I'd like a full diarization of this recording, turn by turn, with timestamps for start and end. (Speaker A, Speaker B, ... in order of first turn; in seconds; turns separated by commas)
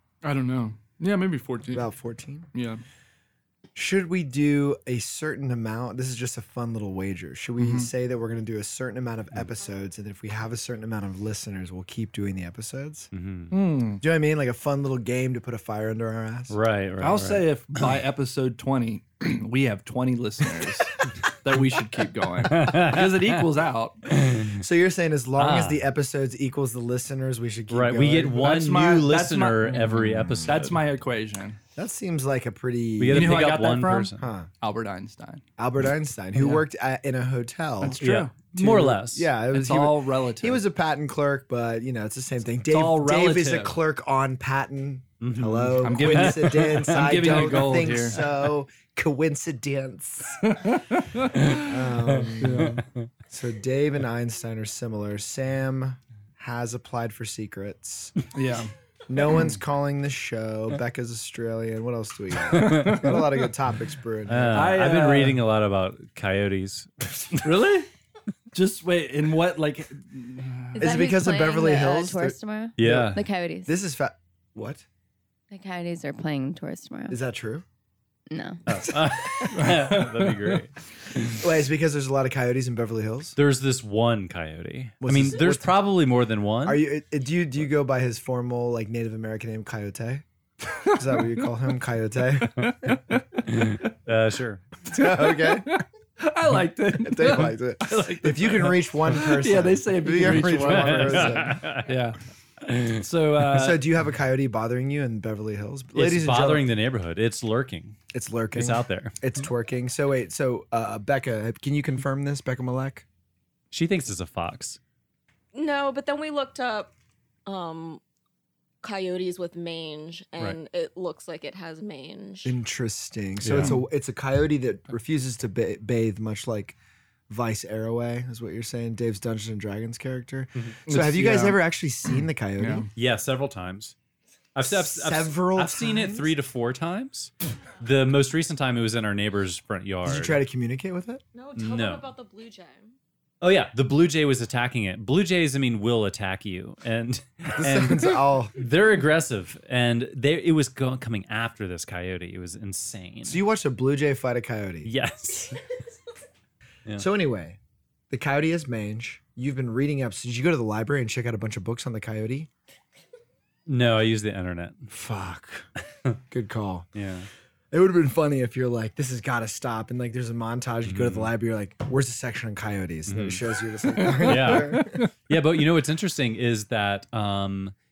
Speaker A: 0.2-1.9, Speaker B: 1.7-2.5, Speaker A: 2.5-2.8, Speaker B: 3.7-13.1, Speaker A: 7.6-7.9, Speaker C: 13.1-13.5, Speaker A: 13.5-14.0, Speaker B: 14.0-16.6, Speaker C: 16.5-17.5, Speaker A: 17.0-24.0, Speaker C: 22.5-23.4, Speaker C: 24.2-24.5, Speaker B: 24.5-28.5, Speaker C: 25.4-25.8, Speaker C: 27.7-30.8, Speaker A: 28.3-31.6, Speaker B: 30.0-30.7, Speaker B: 31.8-33.5, Speaker C: 33.0-34.2, Speaker A: 33.1-35.4, Speaker B: 34.1-34.5, Speaker B: 35.6-38.0, Speaker A: 36.4-36.6, Speaker A: 37.8-39.0, Speaker C: 38.0-39.3, Speaker B: 38.5-50.5, Speaker A: 39.5-40.6, Speaker A: 42.7-43.8, Speaker C: 45.2-48.2, Speaker A: 45.8-48.2, Speaker A: 50.4-51.6, Speaker B: 51.5-52.8, Speaker A: 52.4-52.8, Speaker B: 53.3-58.1, Speaker A: 58.3-58.7, Speaker B: 59.1-64.8, Speaker A: 62.5-63.3, Speaker C: 62.6-63.0, Speaker C: 64.3-67.4, Speaker A: 64.5-65.4, Speaker A: 67.4-67.9, Speaker A: 68.5-71.0, Speaker D: 70.7-73.7, Speaker B: 70.8-74.8, Speaker C: 72.8-73.2, Speaker D: 75.5-77.2, Speaker B: 77.1-77.6, Speaker D: 78.3-78.6, Speaker C: 78.7-80.7, Speaker B: 78.9-79.1, Speaker A: 79.5-80.6, Speaker B: 81.3-83.3, Speaker C: 83.3-86.8, Speaker B: 85.0-85.7, Speaker B: 86.6-90.2, Speaker B: 90.8-92.7, Speaker A: 92.6-93.9, Speaker C: 94.0-94.6, Speaker B: 94.9-95.7, Speaker A: 95.0-102.2, Speaker B: 97.0-101.7, Speaker C: 100.2-101.9, Speaker A: 102.8-103.8, Speaker B: 103.5-106.7, Speaker C: 105.9-108.0, Speaker B: 108.1-113.0, Speaker C: 108.5-109.2, Speaker C: 113.7-114.8, Speaker E: 115.5-116.9, Speaker E: 117.5-118.0, Speaker E: 118.8-122.5, Speaker B: 122.4-126.8, Speaker C: 123.4-123.8, Speaker A: 123.5-123.8, Speaker B: 127.3-132.9, Speaker A: 130.9-131.6, Speaker A: 132.6-132.9, Speaker C: 132.9-133.9, Speaker C: 134.5-140.4, Speaker B: 134.6-136.3, Speaker B: 140.1-141.2, Speaker E: 141.3-142.9, Speaker C: 141.6-142.1, Speaker C: 143.4-153.4, Speaker B: 147.5-148.5, Speaker B: 153.2-154.9, Speaker C: 154.8-155.6, Speaker B: 157.0-157.6, Speaker B: 158.1-162.5, Speaker C: 163.7-164.9, Speaker B: 164.9-165.7, Speaker B: 166.3-166.9, Speaker C: 166.9-167.3, Speaker B: 167.7-175.0, Speaker C: 170.8-171.3, Speaker C: 173.1-173.4, Speaker A: 174.0-175.1, Speaker C: 174.0-177.7